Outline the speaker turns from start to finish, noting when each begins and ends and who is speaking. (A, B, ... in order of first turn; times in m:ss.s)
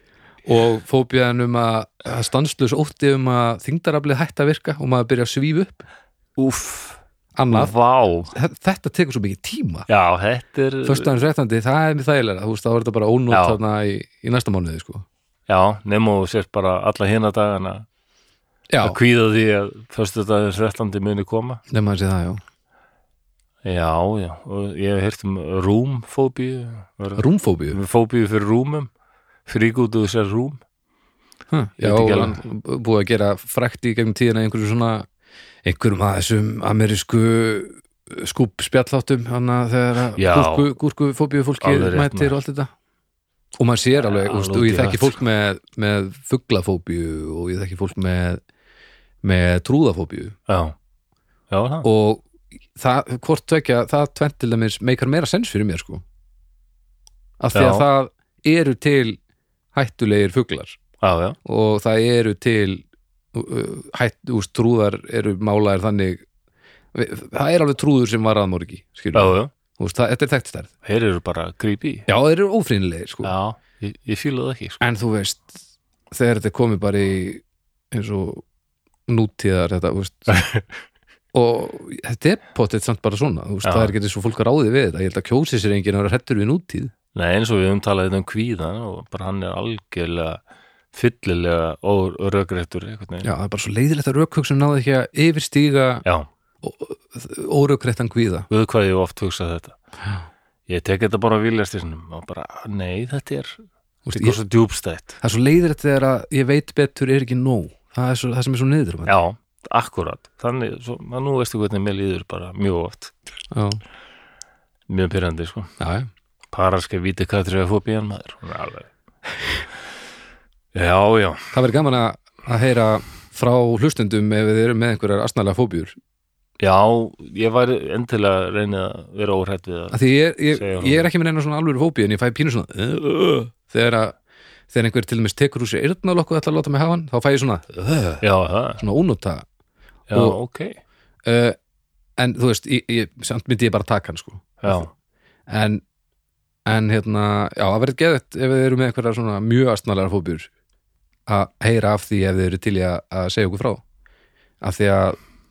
0:00.4-0:05.8 A
0:06.4-0:07.0 B
0:07.4-0:07.7 A
0:07.5-0:08.3 B
0:08.3-0:09.9 A
0:09.9-0:11.1 B
0:10.8-0:15.0 A
0:13.3-0:13.6 B
0:15.5-0:17.8 B
0:18.7-0:19.0 A
0:18.8-0:21.6 B
0:21.7-0:22.4 A
0:23.6-0:28.9 B
0:27.2-0:27.8 A
0:29.5-0:30.6 B
0:31.5-0:35.0 A
0:31.8-0:32.4 B
0:35.6-0:42.7 A
0:40.2-0:40.7 B
0:41.6-0:42.4 B
0:43.6-0:48.4 A
0:44.0-0:45.2 B
0:49.2-0:50.4 A
0:50.5-0:50.7 B
0:51.5-0:51.8 B
0:51.8-0:56.0 A
0:57.4-0:59.2 A
0:57.5-0:57.8 B
0:59.7-1:00.8 A
1:01.0-1:01.4 B
1:01.4-1:06.2 A
1:06.9-1:10.7 A
1:09.1-1:09.5 B
1:10.8-1:12.1 B
1:12.1-1:13.3 A
1:13.2-1:14.8 B
1:14.8-1:15.6 A
1:16.1-1:18.4 A
1:19.1-1:20.4 A
1:20.3-1:20.6 B
1:21.3-1:26.9 A
1:23.6-1:23.9 B
1:27.1-1:30.4 B
1:30.9-1:33.3 B
1:33.2-1:36.0 A
1:36.6-1:38.5 A
1:38.5-1:39.8 B
1:40.7-1:43.6 B
1:44.0-1:44.4 A
1:44.1-1:45.2 B
1:45.2-1:49.2 A
1:49.0-1:53.1 B
1:53.5-1:53.8 A
1:54.9-1:55.7 B
1:55.8-1:56.1 A
1:56.5-1:58.9 B
2:00.7-2:01.5 B
2:01.5-2:06.0 A
2:06.6-2:11.1 B
2:09.9-2:14.1 A
2:14.7-2:18.2 A
2:18.2-2:18.8 B
2:18.8-2:19.4 A
2:20.1-2:20.8 B
2:20.1-2:20.4 A
2:21.2-2:21.6 A
2:22.2-2:24.9 A
2:24.6-2:24.9 B
2:25.5-2:25.8 A
2:26.6-2:30.5 A
2:31.3-2:33.8 A
2:34.6-2:35.2 A